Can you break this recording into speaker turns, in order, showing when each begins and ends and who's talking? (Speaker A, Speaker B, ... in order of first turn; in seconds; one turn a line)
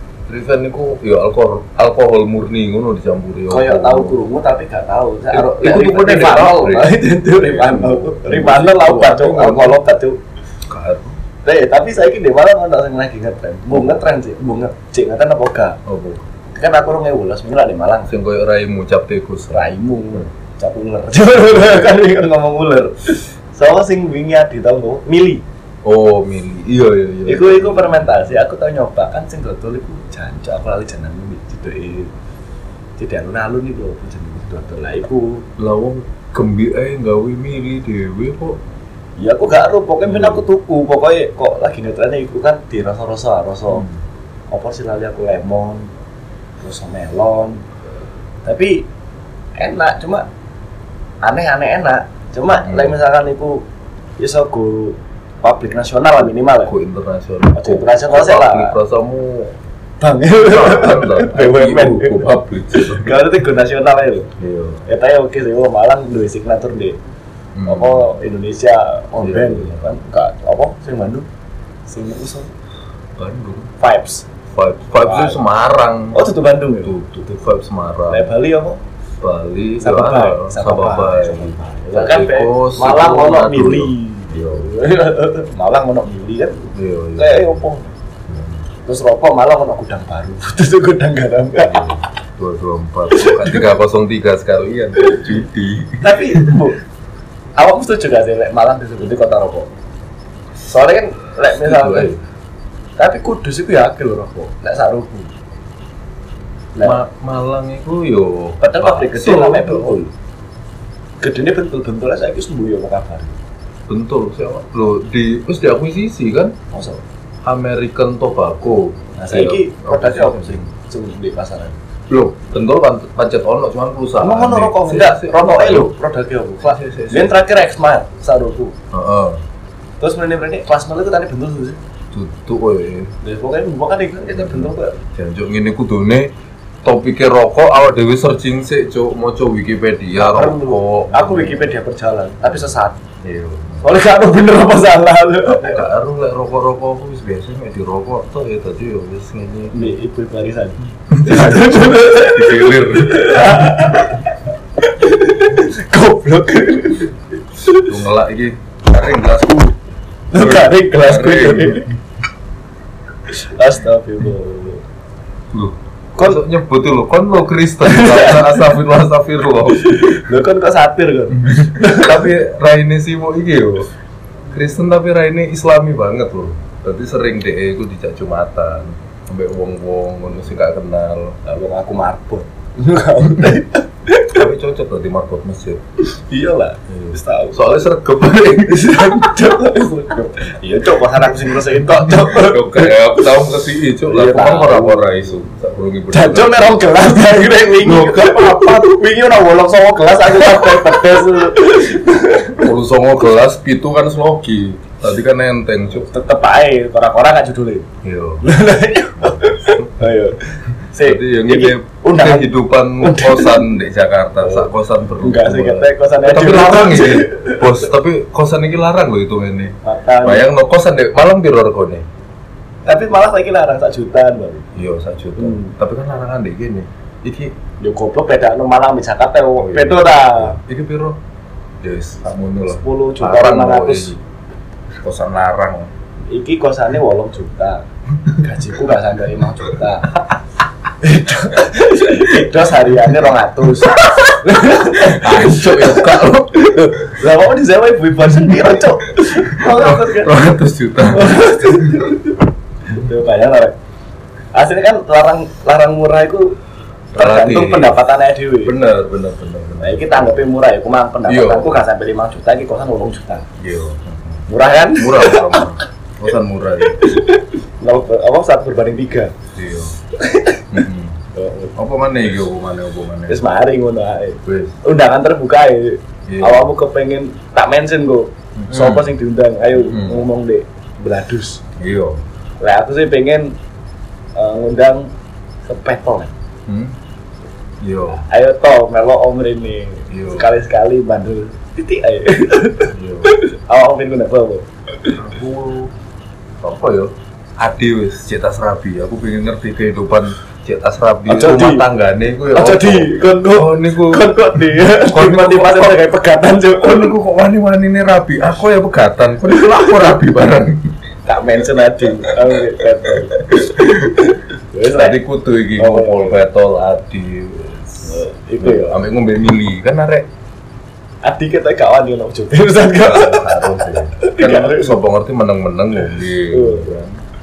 Speaker A: 0.3-4.2
Speaker B: 3.5-10.2
Speaker A: 5.3-9.8
Speaker A: 10.7-11.2
Speaker B: 11.4-15.8
Speaker A: 15.9-16.2
Speaker B: 16.6-18.1
Speaker A: 18.1-20.2
Speaker B: 19.5-25.4
Speaker A: 21.3-22.0
Speaker A: 25.8-28.3
Speaker B: 27.3-32.1
Speaker B: 33.0-35.5
Speaker A: 35.6-38.6
Speaker B: 39.2-43.9
Speaker A: 40.0-40.5
Speaker A: 43.7-44.0
Speaker B: 44.5-45.9
Speaker B: 46.6-47.6
Speaker B: 48.5-48.9
Speaker B: 49.6-50.2
Speaker B: 51.2-53.6
Speaker A: 52.6-53.0
Speaker B: 54.2-56.7
Speaker A: 56.6-59.6
Speaker B: 57.5-58.8
Speaker B: 60.0-64.3
Speaker A: 60.5-63.2
Speaker A: 64.4-64.8
Speaker B: 64.9-67.0
Speaker A: 67.5-68.1
Speaker B: 67.7-71.3
Speaker A: 69.2-70.0
Speaker B: 71.9-72.5
Speaker A: 73.2-73.7
Speaker B: 73.8-74.3
Speaker A: 74.5-76.2
Speaker B: 75.0-75.4
Speaker B: 76.1-76.9
Speaker A: 76.8-78.3
Speaker B: 78.1-78.8
Speaker A: 79.2-84.7
Speaker B: 79.8-87.9
Speaker A: 86.7-87.7
Speaker A: 88.3-88.7
Speaker B: 88.8-91.9
Speaker A: 91.6-96.7
Speaker B: 93.1-93.6
Speaker B: 95.0-95.4
Speaker B: 96.0-96.8
Speaker B: 97.6-99.7
Speaker B: 100.7-102.2
Speaker A: 101.4-102.2
Speaker B: 103.0-105.3
Speaker B: 106.8-107.0
Speaker A: 106.8-110.0
Speaker B: 108.6-110.1
Speaker B: 111.2-113.3
Speaker A: 113.9-116.6
Speaker B: 116.7-117.0
Speaker A: 117.4-120.6
Speaker B: 119.2-121.8
Speaker A: 122.1-125.9
Speaker B: 124.2-128.8
Speaker A: 126.6-127.4
Speaker A: 128.9-129.4
Speaker B: 130.0-131.8
Speaker A: 132.1-133.1
Speaker B: 133.2-135.0
Speaker A: 134.3-136.3
Speaker A: 136.8-141.7
Speaker B: 140.1-143.0
Speaker A: 143.2-144.0
Speaker B: 143.8-145.8
Speaker A: 145.5-150.0
Speaker B: 149.7-157.9
Speaker A: 151.1-153.9
Speaker A: 157.8-159.8
Speaker B: 160.3-161.9
Speaker A: 160.3-161.9
Speaker B: 163.3-164.8
Speaker A: 165.5-170.2
Speaker B: 166.2-166.4
Speaker B: 167.8-168.8
Speaker B: 169.7-172.3
Speaker A: 171.4-173.9
Speaker A: 174.5-181.4
Speaker B: 181.4-184.4
Speaker A: 184.3-185.8
Speaker B: 186.1-187.9
Speaker A: 186.9-189.5
Speaker B: 188.7-193.4
Speaker A: 191.2-196.9
Speaker B: 194.1-195.4
Speaker B: 196.1-202.7
Speaker A: 197.8-199.0
Speaker A: 202.6-206.1
Speaker B: 205.9-207.9
Speaker A: 208.0-208.5
Speaker B: 208.4-213.7
Speaker A: 209.2-209.9
Speaker A: 211.0-222.1
Speaker B: 214.4-214.7
Speaker B: 215.2-217.9
Speaker B: 219.8-220.5
Speaker B: 222.9-224.7
Speaker A: 224.8-227.5
Speaker B: 225.4-225.7
Speaker B: 227.8-230.6
Speaker A: 229.6-231.2
Speaker A: 231.8-234.2
Speaker B: 232.7-234.2
Speaker A: 235.0-235.9
Speaker B: 236.3-240.2
Speaker B: 241.0-250.4
Speaker A: 243.8-244.3
Speaker A: 244.9-247.2
Speaker A: 248.3-252.1
Speaker B: 251.0-253.8
Speaker B: 254.5-256.6
Speaker A: 257.1-258.1
Speaker B: 257.2-258.8
Speaker A: 258.6-260.4
Speaker B: 259.8-263.5
Speaker A: 261.3-261.8
Speaker A: 263.6-267.1
Speaker B: 264.5-265.7
Speaker B: 266.8-269.3
Speaker A: 269.6-270.0
Speaker B: 270.1-270.8
Speaker A: 270.7-271.2
Speaker B: 271.3-271.8
Speaker A: 271.8-273.4
Speaker B: 273.3-281.6
Speaker A: 274.4-274.8
Speaker A: 276.3-276.7
Speaker A: 278.6-279.1
Speaker A: 279.7-280.2
Speaker A: 281.8-282.2
Speaker B: 282.6-283.5
Speaker B: 284.4-285.1
Speaker B: 285.6-286.3
Speaker A: 286.7-286.9
Speaker A: 287.8-288.2
Speaker B: 288.1-295.2
Speaker A: 290.1-290.5
Speaker A: 292.9-293.4
Speaker A: 295.1-295.9
Speaker A: 296.6-306.0
Speaker B: 301.3-301.9
Speaker B: 302.5-307.1
Speaker A: 306.8-310.9
Speaker B: 311.3-315.2
Speaker A: 312.2-312.6
Speaker A: 313.3-314.3
Speaker A: 314.9-320.3
Speaker B: 315.8-316.4
Speaker B: 318.0-319.0
Speaker B: 321.2-325.0
Speaker A: 323.0-327.2
Speaker B: 326.5-327.0